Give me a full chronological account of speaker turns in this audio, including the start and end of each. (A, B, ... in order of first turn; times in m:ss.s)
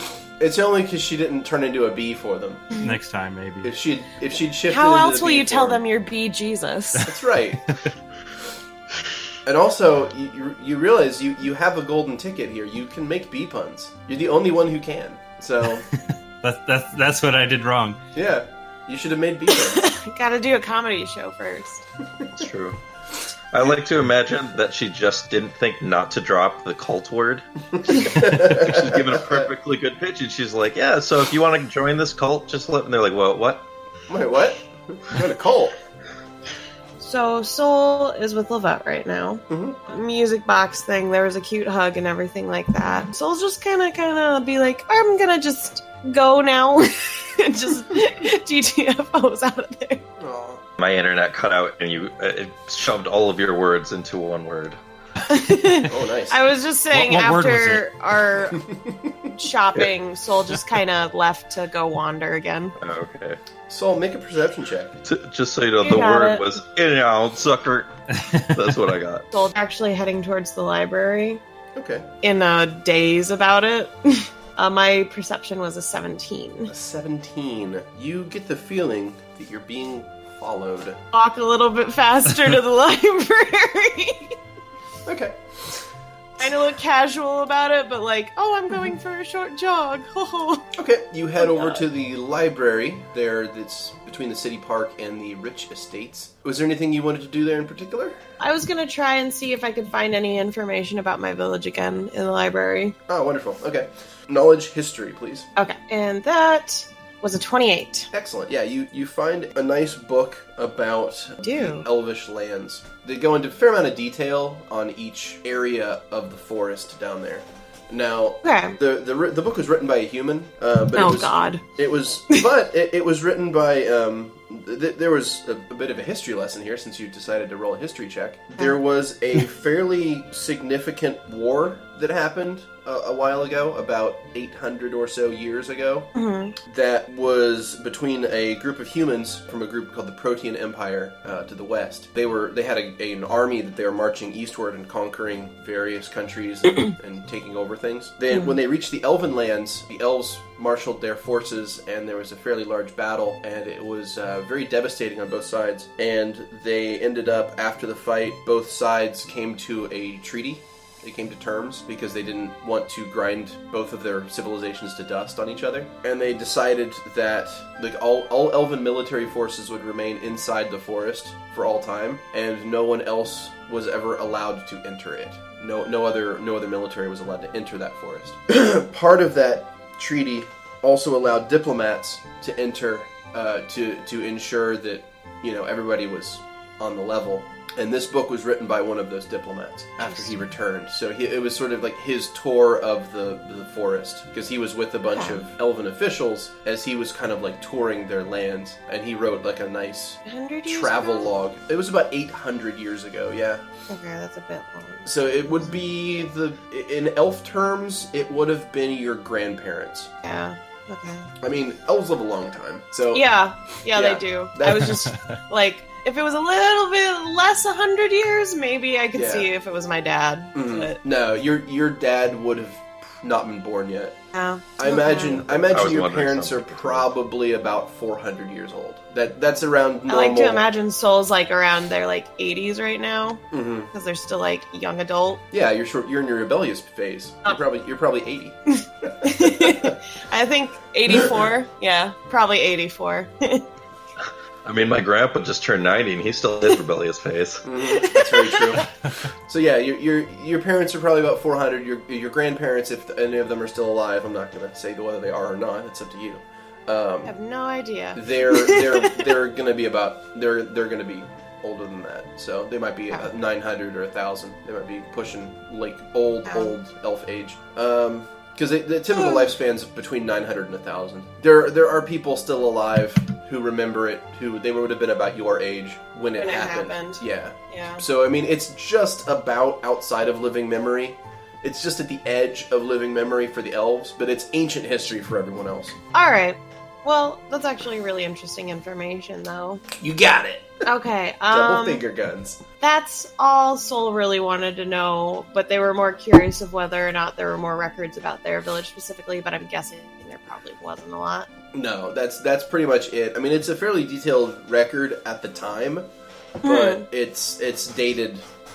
0:00.4-0:02.8 A
0:02.8-0:03.7 B
0:03.6-0:05.8 A
0:04.6-0:07.1 C
0:07.0-0:07.7 A
0:09.4-0:15.9 A
0:16.4-0:18.0 B
0:18.1-0:19.8 A
0:19.5-0:21.8 C
0:22.4-0:22.8 D
0:23.5-0:33.6 D
0:27.8-0:29.5 A
0:34.1-0:35.8 A
0:37.0-0:50.0 C
0:39.5-0:39.8 A
0:50.2-0:50.6 A
0:50.8-0:54.8 D
0:55.3-0:58.6 C
0:55.9-0:56.4 A
0:56.9-0:57.8 B
0:58.5-0:59.3 A
0:59.4-1:02.7 C
1:02.8-1:03.4 D
1:03.7-1:05.0 A
1:05.0-1:07.9 D
1:05.8-1:06.4 C
1:08.1-1:08.7 B
1:08.5-1:09.2 D
1:09.3-1:11.4 C
1:11.7-1:12.1 A
1:12.2-1:16.7 C
1:16.7-1:21.0 A
1:21.1-1:24.4 C
1:25.0-1:25.4 A
1:26.4-1:30.7 C
1:30.8-1:38.2 A
1:31.4-1:31.8 C
1:38.4-1:42.9 C
1:43.1-1:45.5 A
1:45.6-1:48.1 C
1:48.1-2:16.1 A
1:51.4-1:51.8 C
1:58.4-1:58.8 C
2:00.9-2:01.6 C
2:16.1-2:16.6 C
2:16.6-3:23.6 A
3:10.0-3:10.4 C
3:15.0-3:15.4 C
3:20.2-3:21.3 C
3:23.9-3:25.1 C
3:25.0-3:30.1 A
3:30.2-3:31.3 C
3:31.4-3:33.2 A
3:33.1-3:41.0 C
3:33.9-3:35.0 A
3:39.1-3:39.5 A
3:40.5-3:44.2 A
3:44.3-3:45.4 C
3:44.8-3:50.6 A
3:45.3-3:47.0 D
3:50.1-3:55.4 C
3:53.5-3:53.9 A
3:55.5-4:00.0 A
3:58.8-4:03.6 C
4:04.6-4:07.6 D
4:07.6-4:08.8 A
4:08.0-4:08.8 C
4:09.5-4:17.3 A
4:17.2-4:19.2 C
4:18.1-4:46.0 A
4:26.4-4:26.7 C
4:29.1-4:29.5 C
4:36.4-4:38.0 C
4:46.1-4:49.8 C
4:50.0-4:50.8 A
4:50.8-4:52.0 C
4:51.5-4:52.6 A
4:52.8-5:01.5 C
5:01.7-5:06.1 A
5:06.6-5:07.0 C
5:06.6-5:08.4 A